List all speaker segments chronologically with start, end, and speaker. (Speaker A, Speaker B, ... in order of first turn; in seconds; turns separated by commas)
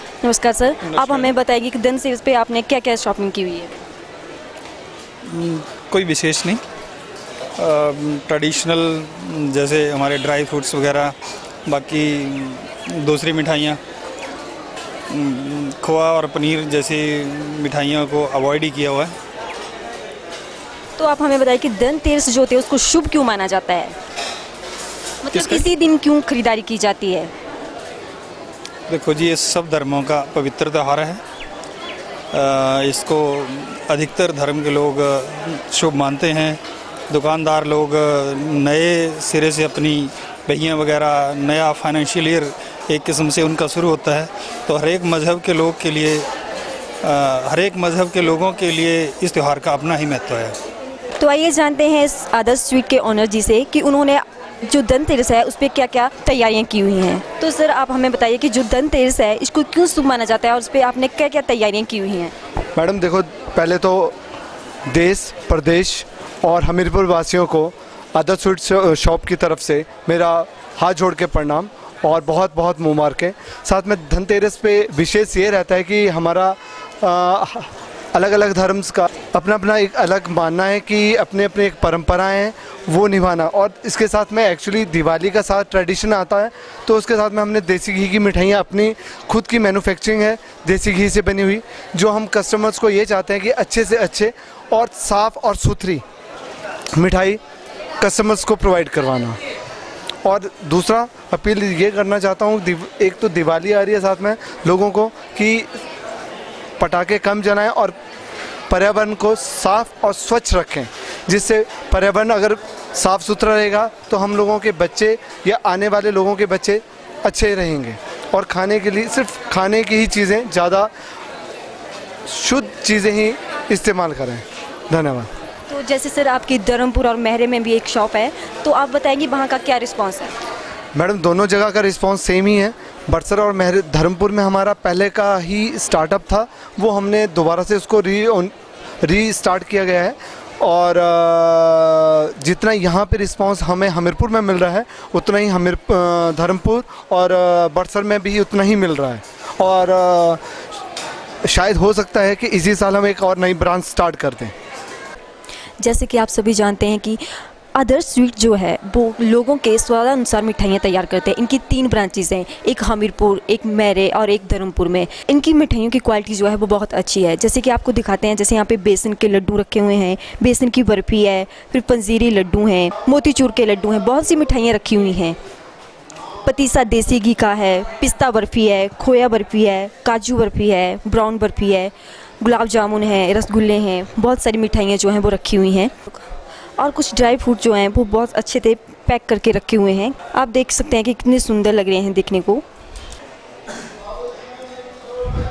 Speaker A: 0.2-3.8, Speaker B: 0.8-1.3, Speaker B: 5.2-6.6, Speaker B: 7.5-11.1, Speaker B: 11.7-13.8, Speaker B: 15.1-19.1, Speaker A: 21.0-24.0, Speaker A: 25.2-27.3, Speaker B: 25.3-25.7, Speaker B: 28.9-31.2, Speaker B: 32.3-46.2, Speaker B: 47.0-50.5, Speaker A: 51.2-62.3, Speaker C: 62.7-64.2, Speaker C: 64.9-96.0, Speaker C: 96.9-97.4, Speaker C: 98.0-99.4, Speaker C: 100.2-105.7, Speaker C: 106.8-107.9, Speaker C: 108.7-120.9, Speaker C: 122.3-125.3, Speaker A: 125.7-130.4, Speaker C: 130.9-150.4, Speaker C: 151.4-154.5, Speaker A: 155.8-157.2, Speaker A: 157.7-175.4, Speaker A: 176.4-186.2, Speaker A: 186.8-192.6